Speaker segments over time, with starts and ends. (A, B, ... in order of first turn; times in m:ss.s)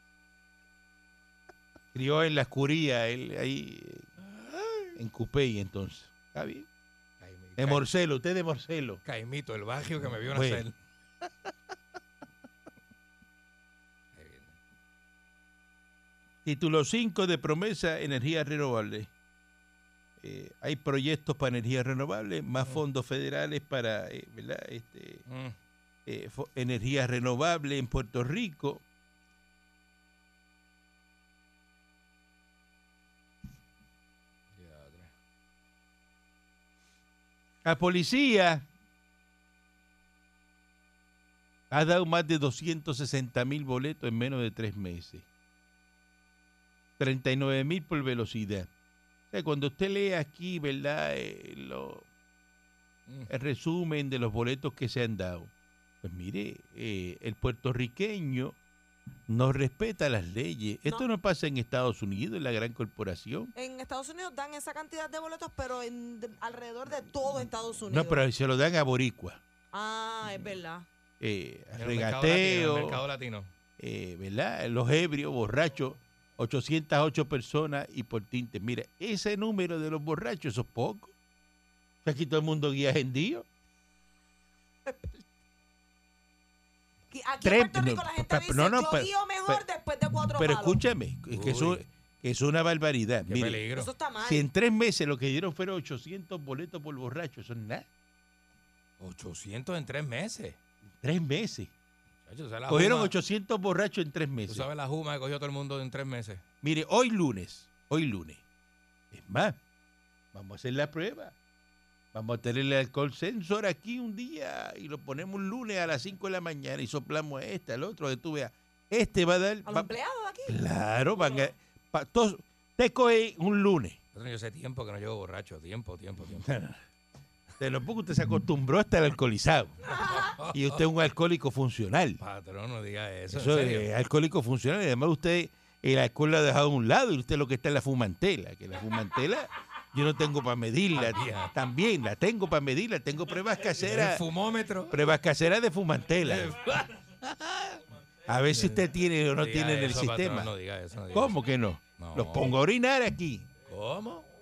0:01.9-0:04.1 A
0:04.2-0:04.9 B
0:05.0-0:06.7 A
0:07.2-0:07.9 B
0:07.6-0:09.0 A
0:09.0-0:10.7 B
0:10.3-0:10.6 A
0:14.1-0:14.6 B
0:16.4-0:19.1 A
0:20.2-0:25.2 A
0:25.3-0:25.6 B
0:26.0-0:28.8 A
0:34.5-0:35.1 B
0:37.6-0:38.6 A
0:41.7-0:45.2 A
0:47.0-0:48.7 A
0:49.3-0:52.0 A
0:53.3-0:55.5 A
0:56.0-0:58.6 A
0:59.3-1:03.5 A
1:03.5-1:08.2 C
1:07.9-1:09.4 A
1:09.7-1:10.8 C
1:11.2-1:13.0 A
1:11.8-1:13.5 B
1:13.8-1:21.1 A
1:22.0-1:23.4 A
1:24.8-1:25.2 C
1:27.1-1:30.8 C
1:27.4-1:29.6 A
1:30.3-1:33.6 A
1:31.3-1:31.8 B
1:33.2-1:33.9 B
1:33.7-1:34.4 C
1:34.2-1:37.9 A
1:39.0-1:40.6 B
1:41.0-1:41.7 A
1:42.2-1:43.1 B
1:42.7-1:44.7 A
1:44.5-1:46.4 B
1:46.6-1:48.4 A
1:49.1-1:49.6 A
1:50.3-1:51.3 A
1:52.1-1:59.9 A
1:59.6-2:00.6 C
2:00.4-2:04.0 A
2:04.1-2:06.5 B
2:06.4-2:06.8 A
2:07.6-2:12.2 A
2:10.0-2:10.8 B
2:12.2-2:13.9 B
2:13.3-2:24.2 A
2:20.9-2:21.5 B
2:23.8-2:25.0 B
2:24.9-2:26.6 A
2:26.2-2:27.8 B
2:28.2-2:30.5 A
2:28.5-2:28.8 B
2:29.4-2:31.4 B
2:31.1-2:33.5 A
2:32.0-2:32.6 B
2:33.6-2:34.3 B